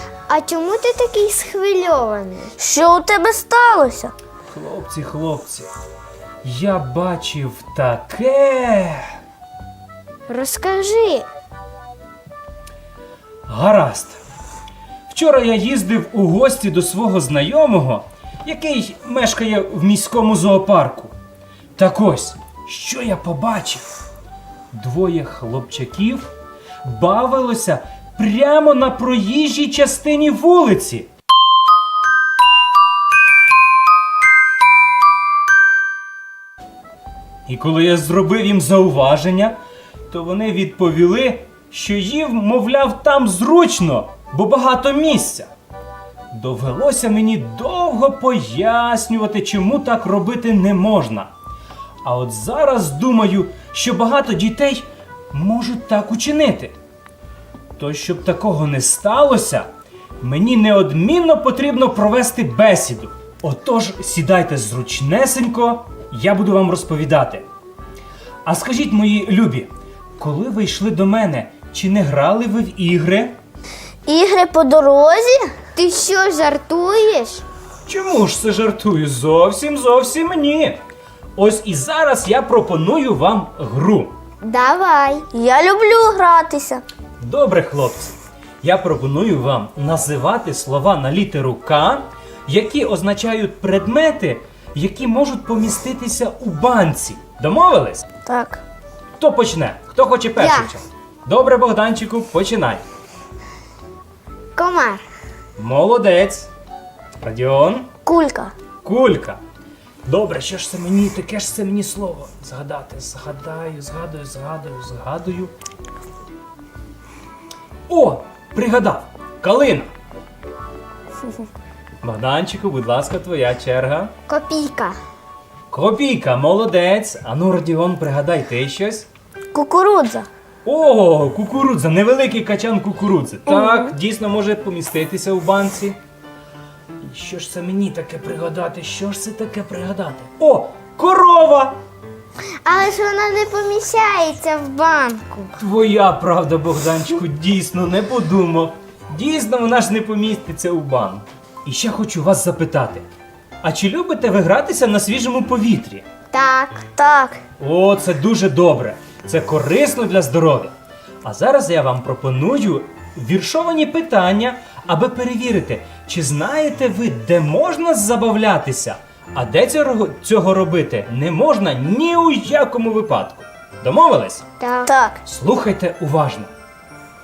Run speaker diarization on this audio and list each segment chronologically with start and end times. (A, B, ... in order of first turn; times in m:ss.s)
0:00.3-0:02.5 A
0:02.6-0:04.1 B
0:04.5-0:05.7 C
0:06.4-0:09.2 C
0:10.3-0:11.3 A
0:13.5-0:14.2 C
0:15.1-0:21.1 C
0:21.8-0:23.9 C
0:24.7-0:26.3 C
0:26.8-0:31.1 C
0:37.4-0:39.6 C
0:40.1-0:45.5 C
0:46.3-0:51.3 C
0:52.0-0:56.7 C
0:57.8-0:59.7 C
1:00.2-1:07.4 C
1:08.4-1:13.3 C
1:14.0-1:15.6 B
1:15.7-1:17.4 A
1:17.8-1:20.8 C
1:21.4-1:24.1 C
1:24.4-1:25.3 A
1:25.3-1:26.8 B
1:27.2-1:38.0 C
1:38.2-1:38.6 B
1:39.2-1:42.8 C
1:40.4-1:40.7 A
1:44.6-1:45.0 A
1:45.6-1:46.5 C
1:47.2-1:47.9 C
1:48.0-1:48.5 B
1:48.8-1:49.4 C
1:50.0-1:55.5 C
1:57.9-1:59.9 C
2:02.0-2:04.1 C
2:04.3-2:05.0 A
2:05.7-2:09.1 C
2:09.5-2:10.3 B
2:10.6-2:16.0 C
2:13.5-2:13.9 B
2:17.0-2:21.8 C
2:22.6-2:25.6 A
2:25.6-2:33.0 C
2:33.6-2:36.0 C
2:36.3-2:36.9 A
2:36.9-2:37.4 B
2:37.6-2:40.7 C
2:41.2-2:54.4 C
2:54.6-2:54.9 A
2:54.8-2:55.2 B
2:55.2-2:56.5 C